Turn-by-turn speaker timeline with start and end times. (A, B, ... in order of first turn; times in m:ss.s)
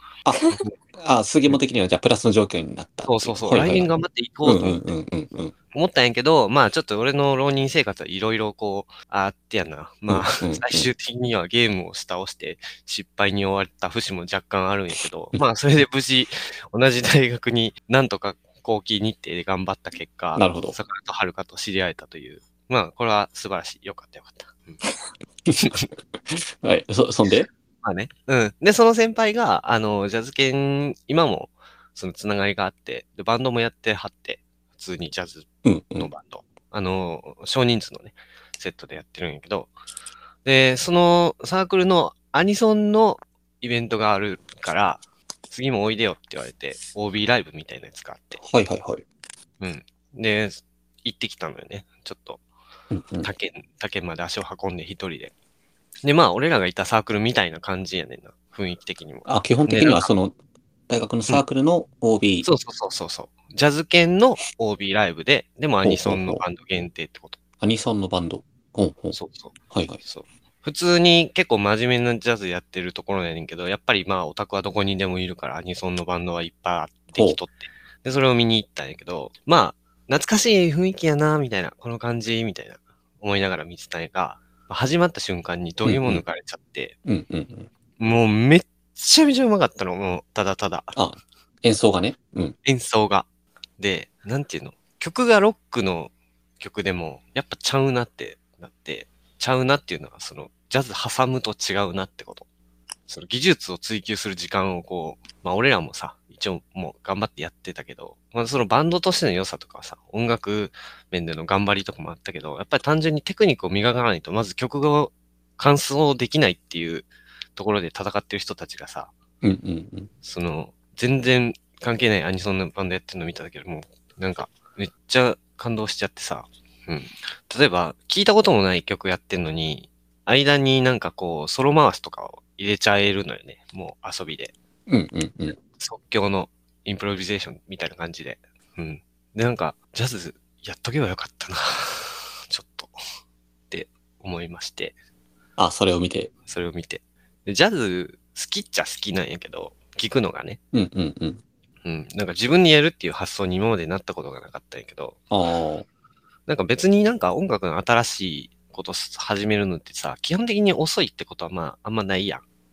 0:00.2-0:03.9 A
0:03.1-0:04.9 B
0:04.4-0:05.5 A
0:05.7-0:24.8 B
0:10.1-0:10.9 A
0:20.3-0:20.8 A
0:25.5-0:27.5 A
0:27.8-0:39.7 B
0:35.6-0:36.1 A
0:40.4-0:48.4 B
0:48.4-0:49.0 A
0:49.6-0:52.4 B
0:52.9-0:53.3 A
0:53.2-0:55.3 B
0:56.0-1:00.1 B
0:59.2-1:00.3 A
1:00.9-1:02.5 A
1:02.4-1:07.4 B
1:05.8-1:06.4 A
1:07.6-1:09.2 A
1:09.1-1:26.9 B
1:09.7-1:10.0 A
1:25.8-1:26.2 A
1:27.0-1:27.7 A
1:28.0-1:30.9 B
1:30.9-1:32.6 A
1:32.6-1:33.2 B
1:33.8-1:42.4 B
1:43.1-1:59.1 B
1:59.4-2:00.1 A
2:00.2-2:14.5 B
2:14.9-2:15.6 A
2:15.8-2:23.0 B
2:23.7-2:24.9 B
2:25.6-2:26.3 A
2:26.5-2:30.6 B
2:30.7-2:31.4 A
2:31.8-2:35.2 B
2:35.3-2:35.8 A
2:36.5-2:42.4 B